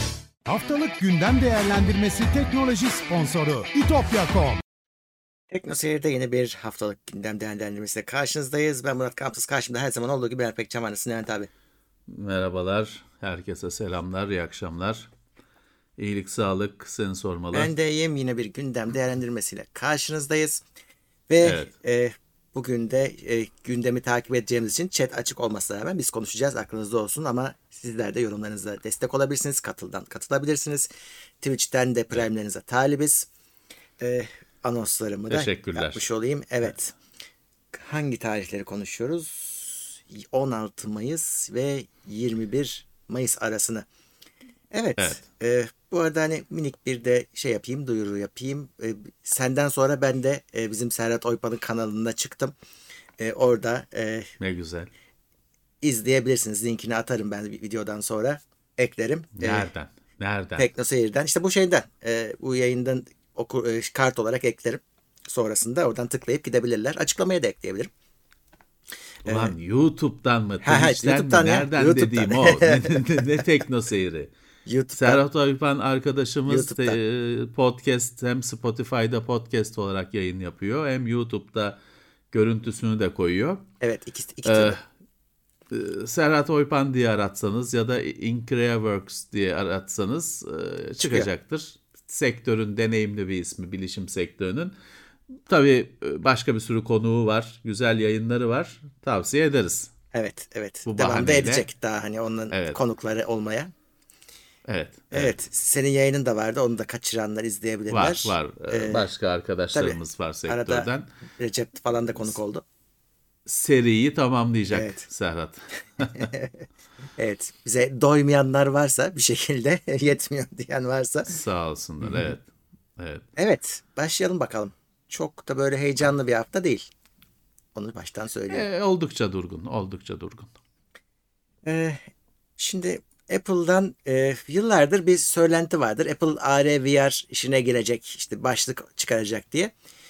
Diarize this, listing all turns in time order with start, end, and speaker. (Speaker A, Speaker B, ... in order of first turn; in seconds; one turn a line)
Speaker A: 0.5-4.6
Speaker B: 5.5-11.5
Speaker C: 12.1-15.1
Speaker C: 16.0-17.7
Speaker B: 17.5-20.6
Speaker B: 21.3-30.9
Speaker C: 21.4-21.7
Speaker B: 31.4-33.3
Speaker B: 34.0-36.9
Speaker C: 35.3-36.1
Speaker B: 37.7-43.9
Speaker B: 44.7-52.5
Speaker B: 53.2-54.3
Speaker C: 54.4-54.9
Speaker B: 55.8-59.7
Speaker C: 59.4-60.7
Speaker B: 60.6-67.9
Speaker B: 69.2-69.5
Speaker C: 69.2-74.3
Speaker B: 70.6-73.5
Speaker B: 74.7-75.2
Speaker C: 74.9-81.8
Speaker B: 76.5-77.0
Speaker C: 82.3-83.7
Speaker B: 83.8-84.8
Speaker C: 84.5-84.8
Speaker C: 85.7-94.7
Speaker B: 91.0-91.3
Speaker C: 95.5-99.9
Speaker B: 100.1-103.7
Speaker C: 100.9-101.7
Speaker C: 102.5-102.8
Speaker C: 104.7-105.3
Speaker B: 105.1-109.1
Speaker C: 107.9-111.1
Speaker B: 109.7-110.9
Speaker B: 111.4-112.7
Speaker C: 113.5-116.3
Speaker B: 114.7-115.0
Speaker B: 116.2-116.6
Speaker B: 117.2-121.4
Speaker C: 121.3-123.2
Speaker B: 122.0-122.3
Speaker B: 123.4-126.9
Speaker B: 127.8-128.7
Speaker C: 128.5-130.5
Speaker B: 131.6-132.0
Speaker B: 132.6-139.7